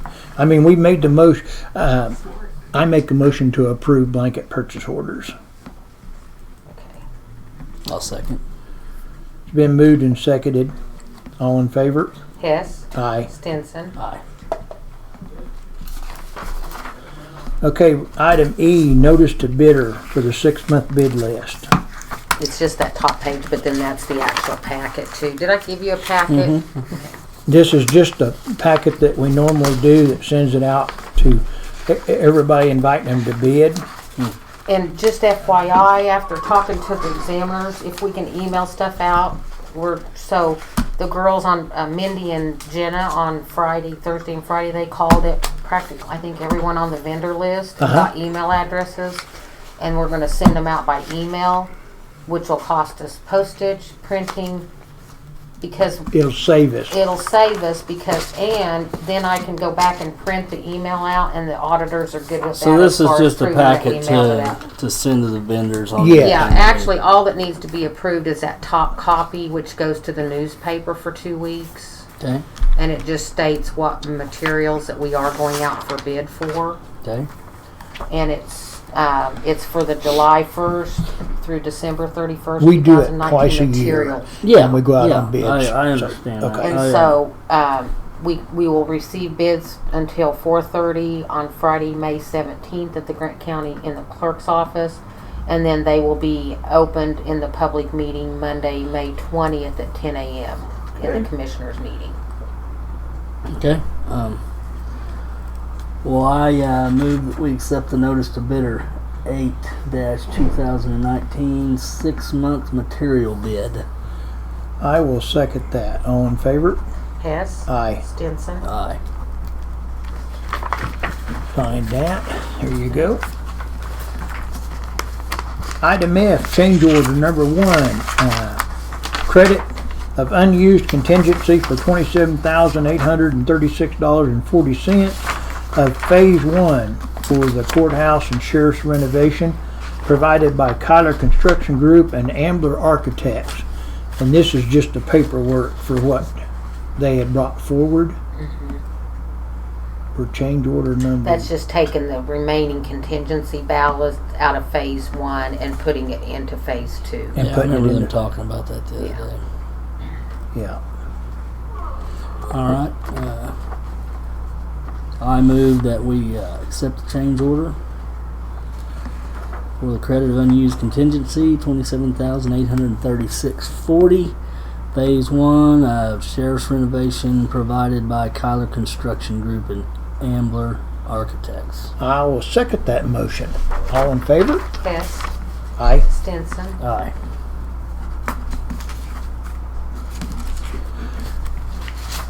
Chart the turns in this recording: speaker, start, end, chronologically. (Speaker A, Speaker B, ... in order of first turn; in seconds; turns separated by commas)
Speaker A: 0.4-2.2, Speaker A: 2.7-5.3, Speaker B: 6.7-7.0, Speaker C: 7.8-8.4, Speaker A: 9.5-10.7, Speaker A: 11.4-12.1, Speaker B: 12.4-13.9, Speaker A: 12.9-13.3, Speaker C: 14.0-14.2, Speaker A: 17.6-21.7, Speaker B: 22.4-26.5, Speaker C: 26.3-26.8, Speaker A: 27.5-33.8, Speaker B: 34.6-49.2, Speaker A: 47.8-48.1, Speaker B: 49.8-51.7, Speaker B: 52.3-54.7, Speaker B: 55.6-56.1, Speaker A: 56.1-57.0, Speaker B: 56.9-64.6, Speaker C: 62.5-66.9, Speaker A: 66.0-66.4, Speaker B: 66.2-72.1, Speaker C: 72.2-72.5, Speaker B: 72.8-76.8, Speaker C: 77.0-77.3, Speaker B: 78.1-84.3, Speaker A: 82.6-86.8, Speaker C: 84.4-87.2, Speaker B: 86.6-102.2, Speaker C: 103.5-104.4, Speaker C: 106.0-113.8, Speaker A: 114.8-116.8, Speaker B: 117.2-118.6, Speaker A: 117.7-118.0, Speaker C: 118.6-119.0, Speaker A: 121.5-123.2, Speaker A: 125.8-128.6, Speaker A: 129.2-143.7, Speaker A: 144.2-146.4, Speaker A: 147.0-148.2, Speaker B: 148.3-148.8, Speaker A: 150.1-151.5, Speaker B: 151.2-157.4, Speaker A: 157.3-158.1, Speaker C: 157.4-159.4, Speaker A: 160.5-160.8, Speaker C: 162.5-163.5, Speaker C: 165.2-167.8, Speaker C: 169.8-174.3, Speaker C: 174.9-181.9, Speaker A: 182.0-184.6, Speaker B: 184.8-185.3, Speaker A: 185.8-186.0, Speaker B: 186.0-186.8, Speaker C: 186.8-187.1